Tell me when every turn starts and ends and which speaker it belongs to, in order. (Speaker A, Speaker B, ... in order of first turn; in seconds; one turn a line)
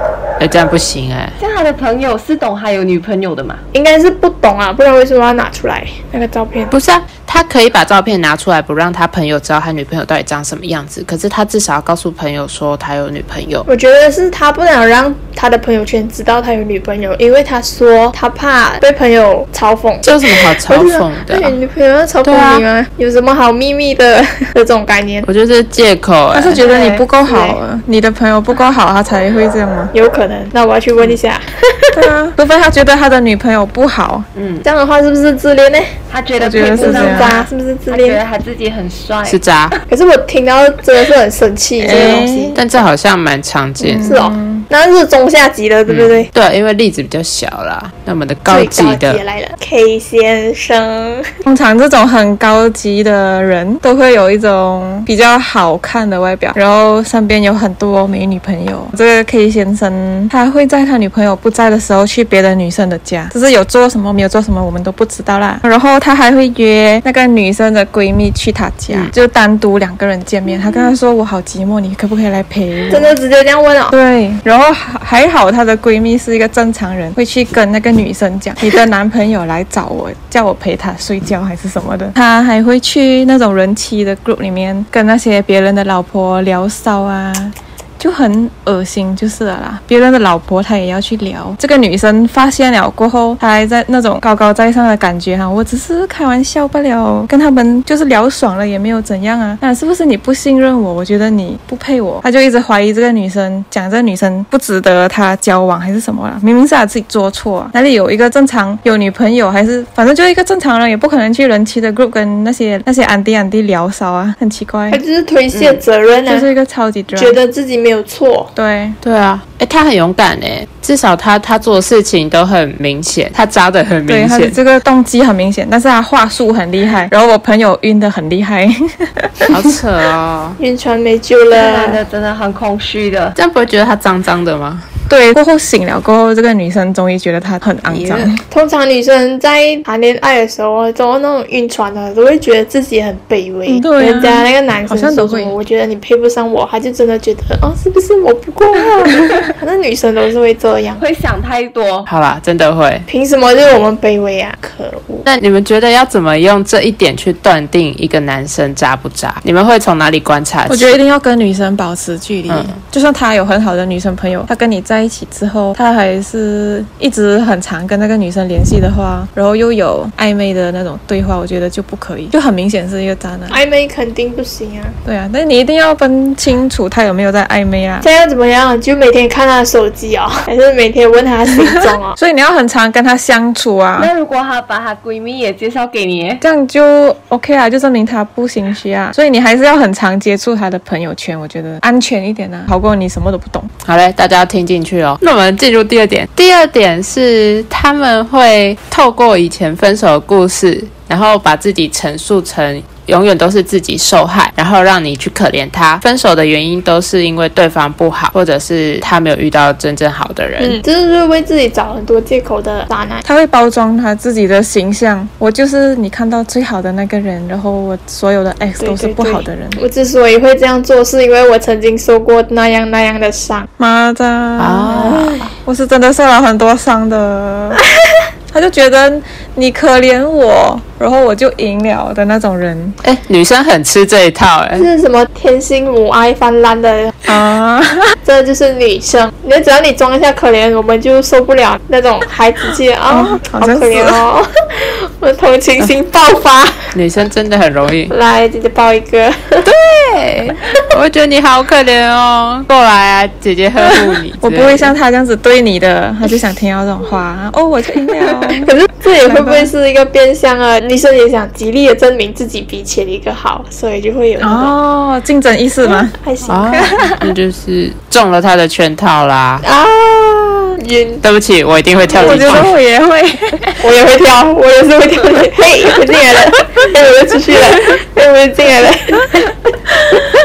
Speaker A: 0.4-1.4
Speaker B: 1.4-3.6
Speaker C: 3.7-6.7
Speaker A: 6.7-13.7
Speaker C: 13.7-25.3
Speaker A: 20.0-21.6
Speaker A: 22.2-22.6
Speaker A: 25.2-26.6
Speaker D: 26.3-29.9
Speaker B: 26.6-27.1
Speaker C: 27.2-27.6
Speaker C: 29.9-32.0
Speaker D: 31.9-34.3
Speaker B: 34.3-34.6
Speaker C: 34.6-36.0
Speaker B: 36.1-39.8
Speaker D: 36.4-37.3
Speaker C: 36.7-38.2
Speaker A: 39.2-39.7
Speaker C: 39.9-42.6
Speaker D: 41.8-42.5
Speaker B: 41.9-42.3
Speaker A: 42.5-44.1
Speaker D: 43.8-44.6
Speaker C: 44.0-46.3
Speaker A: 45.9-49.2
Speaker C: 48.5-51.3
Speaker D: 51.4-73.1
Speaker C: 72.9-73.9
Speaker D: 73.9-115.0
Speaker C: 114.9-116.5
Speaker D: 116.3-117.4
Speaker C: 117.1-118.5
Speaker D: 118.5-119.0
Speaker A: 119.0-124.6
Speaker D: 124.1-129.6
Speaker A: 129.5-130.6
Speaker C: 130.6-132.0
Speaker B: 131.5-133.3
Speaker A: 133.3-134.9
Speaker D: 135.1-138.4
Speaker A: 137.9-138.3
Speaker C: 138.5-151.0
Speaker D: 143.7-145.5
Speaker B: 151.0-152.1
Speaker A: 152.1-153.1
Speaker C: 153.1-155.3
Speaker A: 155.2-160.9
Speaker D: 160.7-173.6
Speaker A: 162.5-162.8
Speaker C: 173.5-175.0
Speaker D: 175.0-178.1
Speaker C: 178.0-182.2
Speaker D: 182.2-184.1
Speaker B: 184.0-186.4
Speaker D: 186.4-193.7
Speaker A: 193.8-210.8
Speaker C: 210.6-213.2
Speaker D: 213.2-219.8
Speaker C: 218.8-223.7
Speaker D: 223.8-227.8
Speaker A: 224.6-225.3
Speaker C: 224.9-225.5
Speaker D: 228.5-233.0
Speaker A: 233.0-234.9
Speaker C: 234.7-237.3
Speaker D: 237.2-238.2
Speaker C: 238.2-246.9
Speaker D: 243.1-244.2
Speaker A: 246.9-248.1
Speaker C: 248.1-249.7
Speaker A: 249.6-254.9
Speaker D: 253.8-259.7
Speaker C: 258.6-264.8
Speaker D: 264.4-266.1
Speaker C: 266.1-267.0
Speaker A: 266.5-269.6
Speaker D: 266.7-267.3
Speaker C: 269.6-271.2
Speaker A: 271.2-272.7
Speaker D: 272.1-273.7
Speaker C: 272.1-272.6
Speaker C: 273.8-279.6